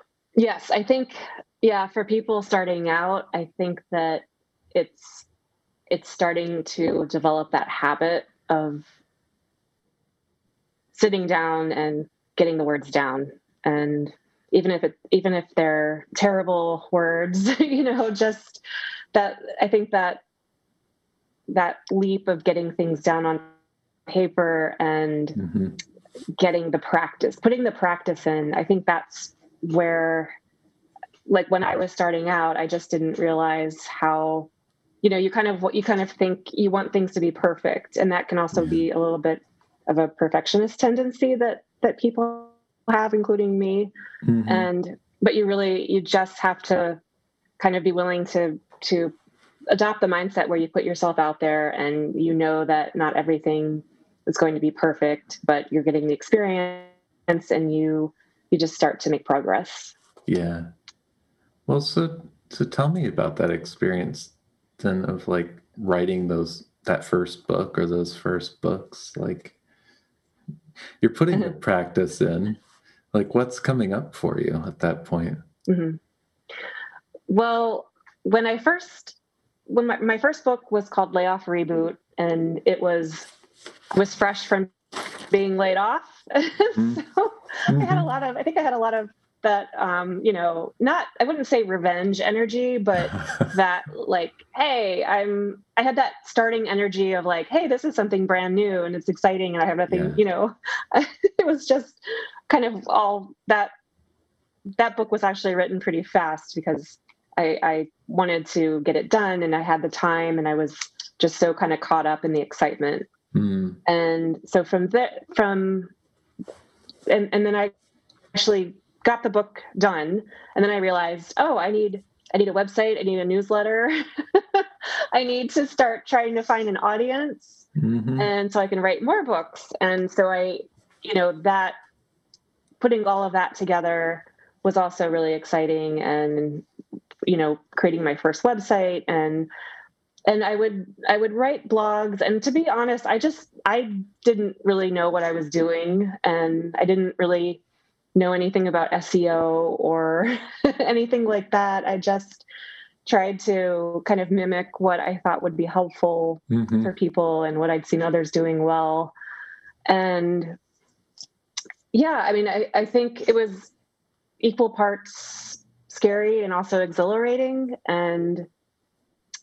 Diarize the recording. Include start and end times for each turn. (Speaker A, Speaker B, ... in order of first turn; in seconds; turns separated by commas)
Speaker A: 0.3-5.3, Speaker A: 5.9-8.9, Speaker A: 10.9-18.6, Speaker A: 19.1-20.2, Speaker A: 21.5-23.5, Speaker A: 24.1-25.4, Speaker B: 25.4-25.8, Speaker A: 26.4-30.3, Speaker A: 31.3-34.5, Speaker A: 35.0-43.9, Speaker B: 38.5-38.8, Speaker B: 44.2-44.7, Speaker A: 44.5-47.0, Speaker A: 47.6-49.1, Speaker A: 49.7-59.9, Speaker B: 60.3-60.7, Speaker B: 61.7-69.5, Speaker B: 71.0-72.6, Speaker B: 73.1-75.4, Speaker A: 75.7-76.0, Speaker A: 77.3-79.2, Speaker A: 79.7-83.3, Speaker A: 83.9-84.7, Speaker A: 85.3-103.7, Speaker B: 86.7-87.0, Speaker B: 87.7-88.1, Speaker B: 93.0-93.5, Speaker B: 99.9-100.2, Speaker A: 104.8-113.1, Speaker B: 113.3-113.8, Speaker A: 113.8-115.9, Speaker A: 117.1-117.7, Speaker A: 118.3-127.6, Speaker B: 127.8-128.3, Speaker A: 128.2-131.8, Speaker A: 132.8-136.7, Speaker A: 137.2-139.5, Speaker A: 140.3-147.6, Speaker A: 148.1-152.4, Speaker A: 153.0-159.1, Speaker B: 156.5-156.9, Speaker A: 159.9-160.6, Speaker A: 161.9-163.7, Speaker A: 164.4-168.5